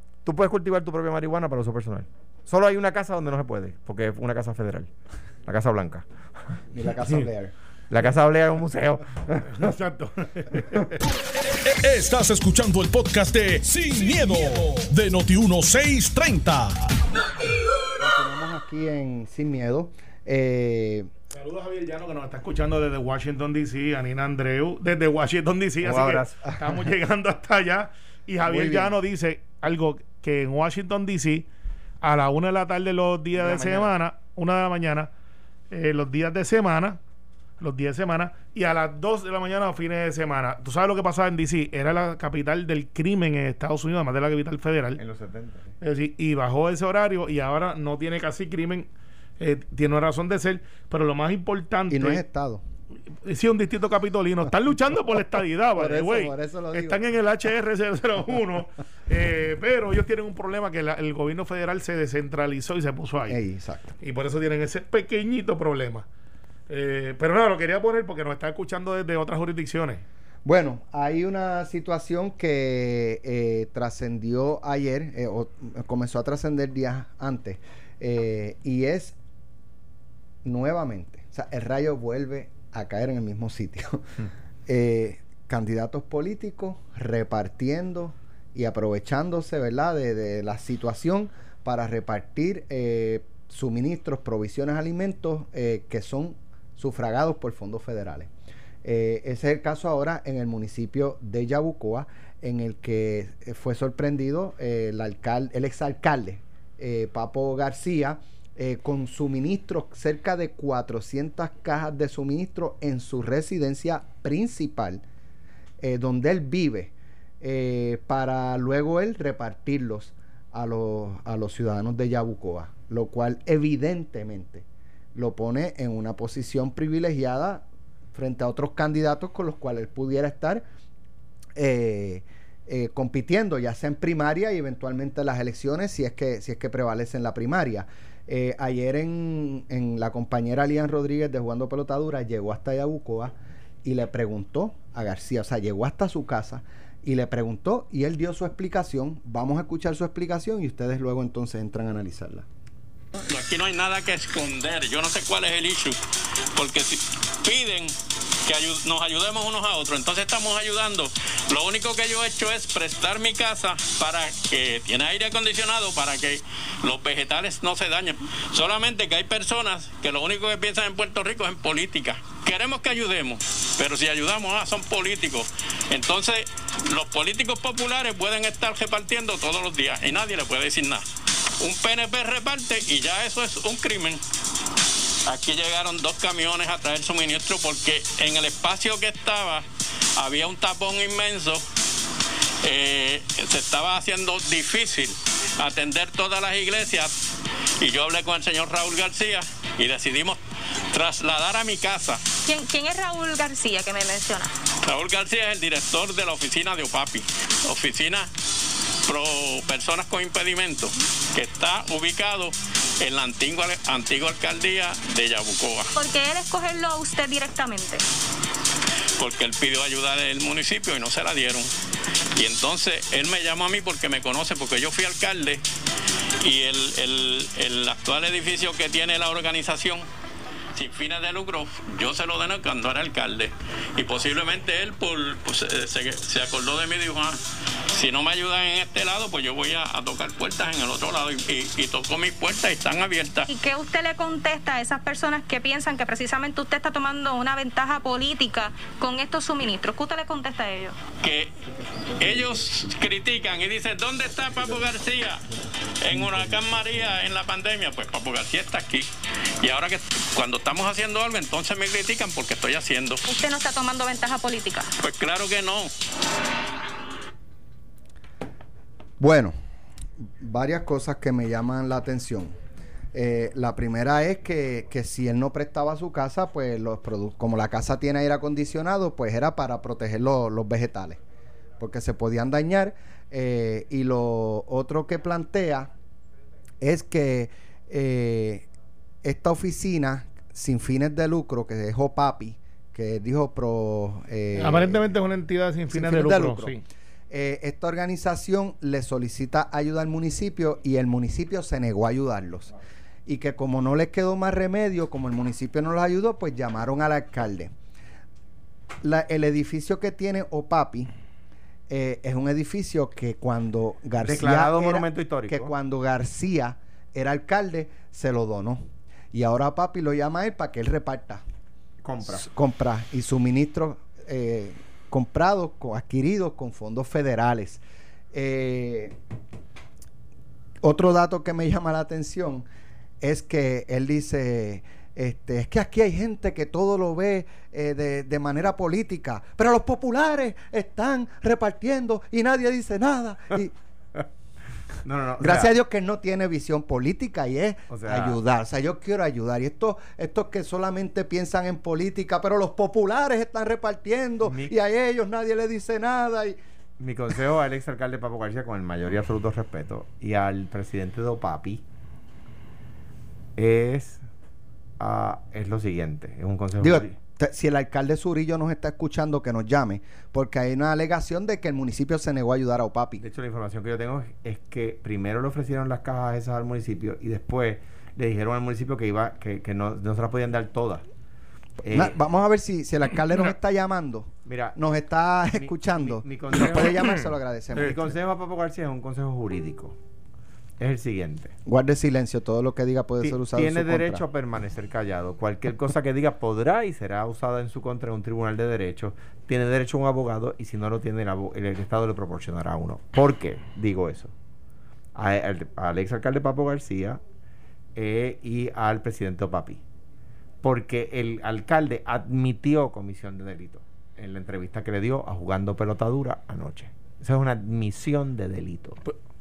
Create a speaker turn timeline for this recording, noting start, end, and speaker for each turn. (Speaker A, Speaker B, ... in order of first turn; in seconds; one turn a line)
Speaker A: 0.2-4.9
Speaker A: 5.5-7.1
Speaker B: 6.7-7.5
Speaker A: 7.9-9.7
Speaker C: 9.5-11.0
Speaker D: 11.4-17.0
Speaker B: 18.0-21.1
Speaker C: 21.3-31.5
Speaker A: 25.8-26.6
Speaker B: 28.4-28.9
Speaker C: 32.0-35.1
Speaker A: 33.4-33.8
Speaker C: 35.7-37.0
Speaker C: 37.6-45.0
Speaker A: 45.0-45.7
Speaker C: 45.8-52.2
Speaker B: 51.9-52.6
Speaker C: 53.2-63.4
Speaker B: 55.8-57.0
Speaker B: 63.3-64.0
Speaker C: 64.0-66.1
Speaker C: 66.7-70.0
Speaker B: 70.5-79.2
Speaker B: 80.4-98.3
Speaker B: 98.8-115.0
Speaker B: 115.8-130.6
Speaker B: 131.6-143.3
Speaker B: 143.8-152.5
Speaker E: 153.2-156.0
Speaker E: 156.6-157.9
Speaker E: 158.5-181.0
Speaker E: 181.6-184.2
Speaker E: 185.3-189.7
Speaker E: 190.2-191.6
Speaker E: 192.6-197.1
Speaker E: 197.8-202.2
Speaker F: 202.4-204.5
Speaker E: 204.8-208.3
Speaker E: 209.1-215.9
Speaker F: 216.0-218.0
Speaker E: 219.2-221.7
Speaker E: 222.3-225.6
Speaker E: 226.4-230.1
Speaker E: 230.8-237.4
Speaker E: 237.9-243.5
Speaker F: 243.5-251.0
Speaker E: 251.2-251.5
Speaker E: 252.2-259.1
Speaker E: 259.6-263.2
Speaker F: 263.3-264.9
Speaker E: 265.0-265.9
Speaker B: 269.2-269.5
Speaker B: 270.4-272.5
Speaker B: 273.1-281.2
Speaker B: 281.8-285.9
Speaker B: 286.8-288.7
Speaker B: 289.2-295.1
Speaker C: 294.6-296.8
Speaker B: 295.9-296.8
Speaker B: 297.3-302.7
Speaker B: 303.3-307.7
Speaker B: 309.0-311.1
Speaker B: 311.9-321.4
Speaker A: 314.2-315.7
Speaker A: 322.0-322.5
Speaker B: 322.3-327.8
Speaker B: 328.3-329.1
Speaker B: 330.8-332.6
Speaker B: 333.2-343.7
Speaker A: 345.0-345.7
Speaker B: 345.4-356.6
Speaker A: 347.9-348.4
Speaker A: 354.4-354.8
Speaker A: 357.0-361.8
Speaker A: 363.6-364.2
Speaker A: 365.0-367.2
Speaker B: 366.8-373.2
Speaker A: 373.2-381.1
Speaker A: 381.8-382.2
Speaker B: 381.9-388.2
Speaker A: 384.5-384.8
Speaker A: 385.5-387.2
Speaker A: 387.8-390.0
Speaker A: 390.8-391.6
Speaker B: 391.7-394.2
Speaker A: 393.2-404.3
Speaker A: 405.2-407.2
Speaker A: 407.9-409.8
Speaker A: 410.6-419.0